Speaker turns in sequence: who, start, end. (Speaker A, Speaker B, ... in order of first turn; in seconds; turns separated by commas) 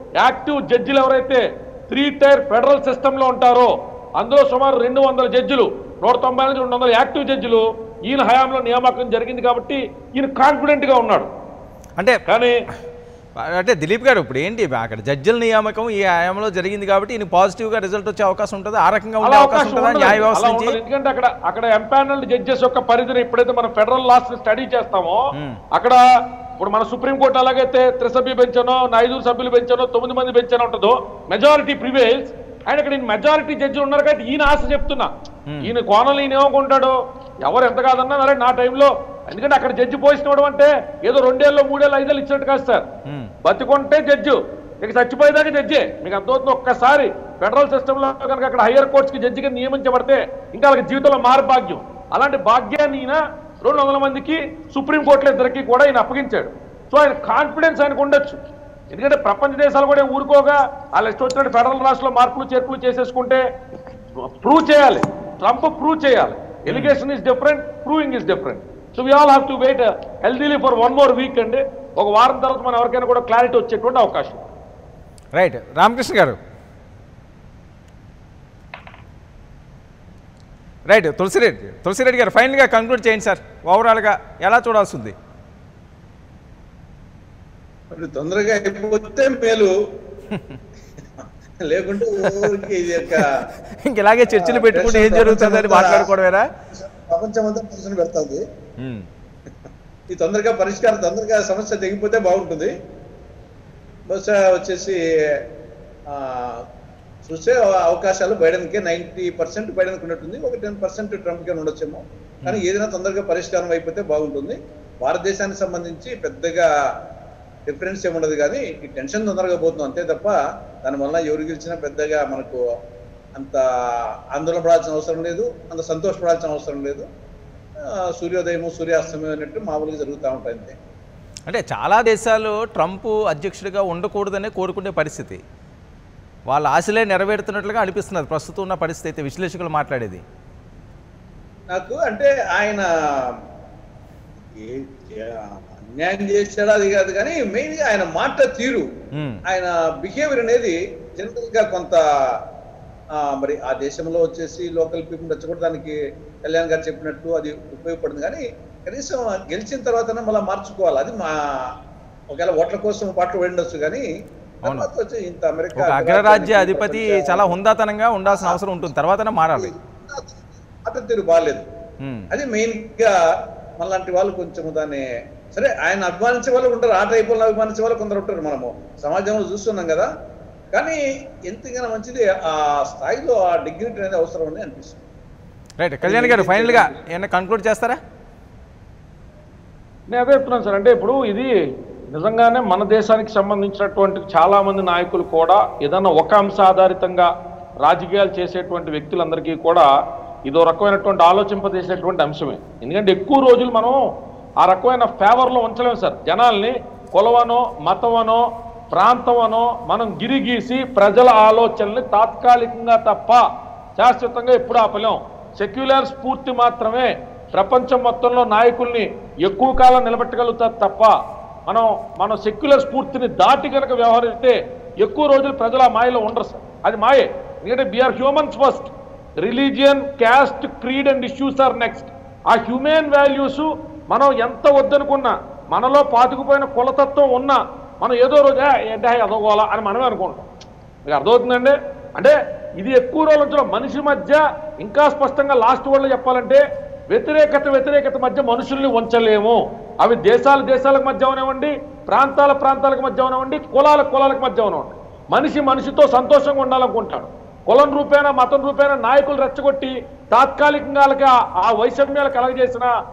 Speaker A: 0.2-11.3, Speaker A: 12.3-12.6, Speaker B: 13.4-20.8, Speaker A: 19.2-26.0, Speaker B: 25.3-25.6, Speaker A: 26.6-35.1, Speaker B: 35.5-35.7, Speaker A: 35.6-42.9, Speaker B: 43.1-43.3, Speaker A: 43.4-58.4, Speaker A: 58.9-63.4, Speaker A: 64.4-74.5, Speaker B: 66.7-67.0, Speaker B: 75.3-76.4, Speaker B: 80.9-85.1, Speaker C: 87.9-89.7, Speaker B: 90.3-90.6, Speaker C: 91.2-93.5, Speaker B: 92.2-96.5, Speaker C: 94.3-96.1, Speaker C: 96.7-98.4, Speaker B: 98.8-99.1, Speaker C: 100.1-102.7, Speaker C: 104.1-105.4, Speaker C: 106.1-106.6, Speaker C: 107.3-116.7, Speaker C: 117.7-122.6, Speaker C: 123.3-123.6, Speaker C: 124.3-127.1, Speaker C: 128.2-130.8, Speaker B: 131.5-135.4, Speaker B: 136.5-140.2, Speaker C: 141.7-143.3, Speaker C: 144.5-148.9, Speaker B: 149.1-149.4, Speaker C: 149.5-152.4, Speaker C: 153.2-161.7, Speaker C: 162.3-164.1, Speaker C: 164.7-167.5, Speaker B: 165.8-169.7, Speaker C: 168.3-168.6, Speaker C: 169.6-171.7, Speaker B: 172.0-172.3, Speaker C: 172.3-173.2, Speaker C: 173.8-180.1, Speaker C: 180.7-185.0, Speaker B: 185.8-188.0, Speaker C: 186.0-186.9, Speaker A: 190.1-191.5, Speaker A: 192.1-197.3, Speaker A: 197.8-199.9, Speaker A: 200.5-204.0, Speaker A: 204.6-213.4, Speaker A: 214.0-221.2, Speaker A: 221.7-240.5, Speaker A: 241.1-262.9